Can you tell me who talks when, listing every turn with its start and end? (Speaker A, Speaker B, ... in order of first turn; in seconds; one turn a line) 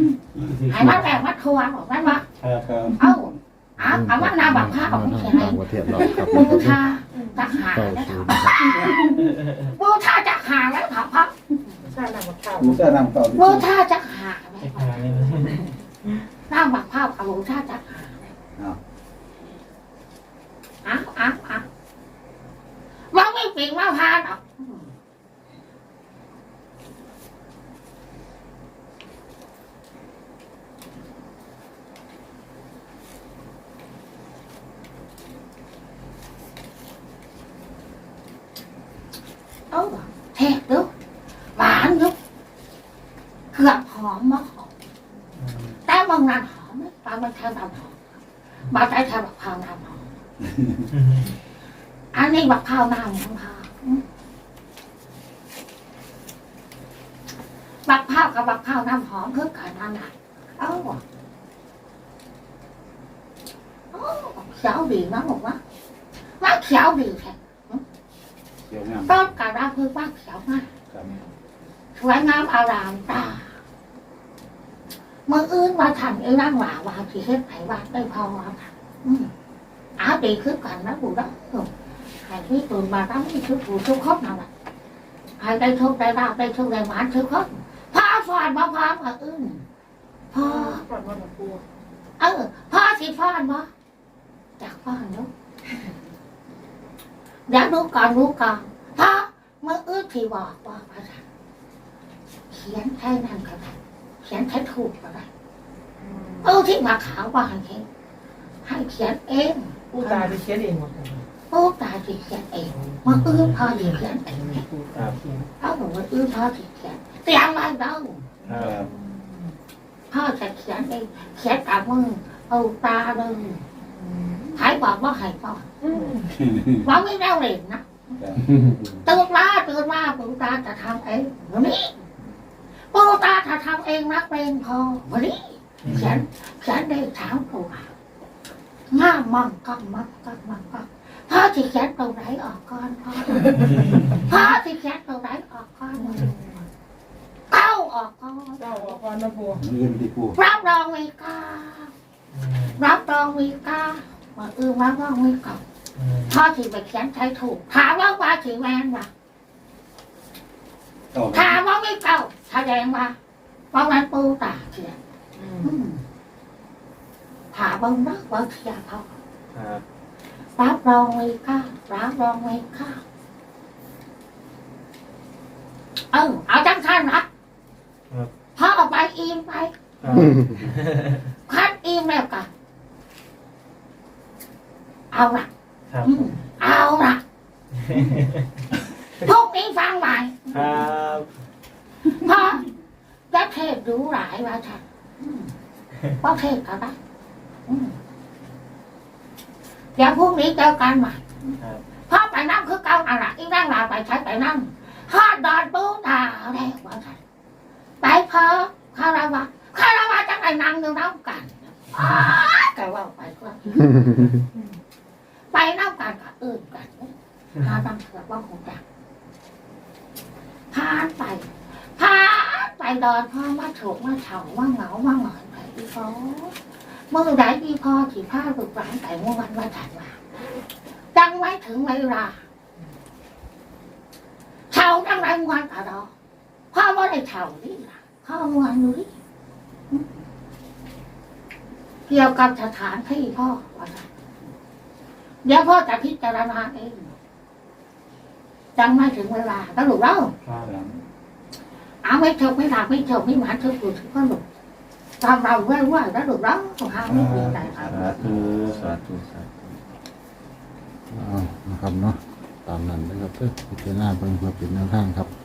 Speaker A: 0.4-1.1
Speaker B: 0.7-2.2
Speaker A: 2.4-2.9
Speaker C: 2.5-3.0
Speaker B: 3.0-11.8
Speaker D: 3.8-6.8
Speaker E: 7.2-7.5
Speaker D: 7.6-9.0
Speaker E: 11.8-12.9
Speaker C: 12.6-13.7
Speaker B: 13.3-15.8
Speaker A: 14.6-15.6
Speaker B: 16.5-18.3
Speaker B: 20.8-21.6
Speaker B: 23.1-24.9
Speaker B: 39.7-40.9
Speaker B: 41.6-42.2
Speaker B: 43.5-44.7
Speaker A: 45.4-45.8
Speaker B: 45.9-48.2
Speaker B: 48.7-50.1
Speaker A: 50.9-51.3
Speaker B: 52.1-54.0
Speaker B: 57.9-61.0
Speaker B: 63.9-65.6
Speaker B: 66.4-67.8
Speaker C: 68.7-69.2
Speaker B: 69.1-70.7
Speaker B: 72.0-73.5
Speaker B: 75.3-79.3
Speaker B: 80.0-81.7
Speaker B: 82.2-84.5
Speaker B: 85.4-89.6
Speaker B: 90.3-90.8
Speaker E: 90.4-91.6
Speaker B: 92.2-93.7
Speaker B: 94.6-95.3
Speaker B: 97.5-101.2
Speaker B: 102.5-105.3
Speaker E: 106.0-106.6
Speaker B: 106.4-107.9
Speaker B: 108.6-110.4
Speaker E: 109.9-111.3
Speaker B: 111.5-114.6
Speaker E: 112.7-115.5
Speaker B: 115.6-118.2
Speaker E: 118.5-119.5
Speaker A: 118.5-118.8
Speaker B: 120.1-123.6
Speaker E: 123.8-124.6
Speaker B: 124.5-125.7
Speaker E: 125.8-126.4
Speaker C: 126.4-126.8
Speaker B: 126.8-128.1
Speaker C: 128.2-129.0
Speaker B: 129.0-132.0
Speaker B: 132.9-137.9
Speaker A: 135.8-136.2
Speaker C: 135.9-136.2
Speaker B: 138.9-143.6
Speaker B: 144.1-146.3
Speaker E: 146.1-146.7
Speaker B: 147.5-149.0
Speaker E: 148.6-149.6
Speaker C: 149.6-150.4
Speaker B: 150.4-151.9
Speaker A: 152.3-152.8
Speaker B: 152.8-155.6
Speaker A: 156.0-156.4
Speaker B: 156.3-159.1
Speaker C: 161.1-161.6
Speaker B: 161.3-163.2
Speaker B: 163.7-165.0
Speaker E: 165.4-165.7
Speaker B: 165.6-166.0
Speaker B: 167.5-169.1
Speaker A: 169.5-169.8
Speaker B: 170.6-173.0
Speaker B: 176.1-177.3
Speaker B: 178.6-180.4
Speaker A: 180.0-181.2
Speaker B: 181.5-182.5
Speaker B: 185.1-185.5
Speaker B: 186.0-187.2
Speaker A: 187.9-188.4
Speaker B: 189.2-190.7
Speaker A: 190.5-191.3
Speaker B: 192.1-192.6
Speaker B: 193.3-195.5
Speaker B: 196.2-197.0
Speaker B: 197.7-197.9
Speaker B: 200.0-201.6
Speaker B: 202.1-207.2
Speaker B: 208.0-214.4
Speaker B: 215.5-218.8
Speaker B: 220.7-226.6
Speaker B: 227.1-230.2
Speaker B: 231.1-232.4
Speaker B: 234.7-236.1
Speaker B: 236.7-239.1
Speaker B: 242.1-244.1
Speaker B: 245.4-247.1
Speaker B: 248.8-250.3
Speaker A: 250.4-250.7
Speaker C: 250.6-251.0
Speaker B: 252.0-254.4
Speaker B: 255.2-258.3
Speaker C: 257.1-258.7
Speaker F: 257.8-259.8
Speaker A: 258.1-259.0
Speaker D: 261.1-265.3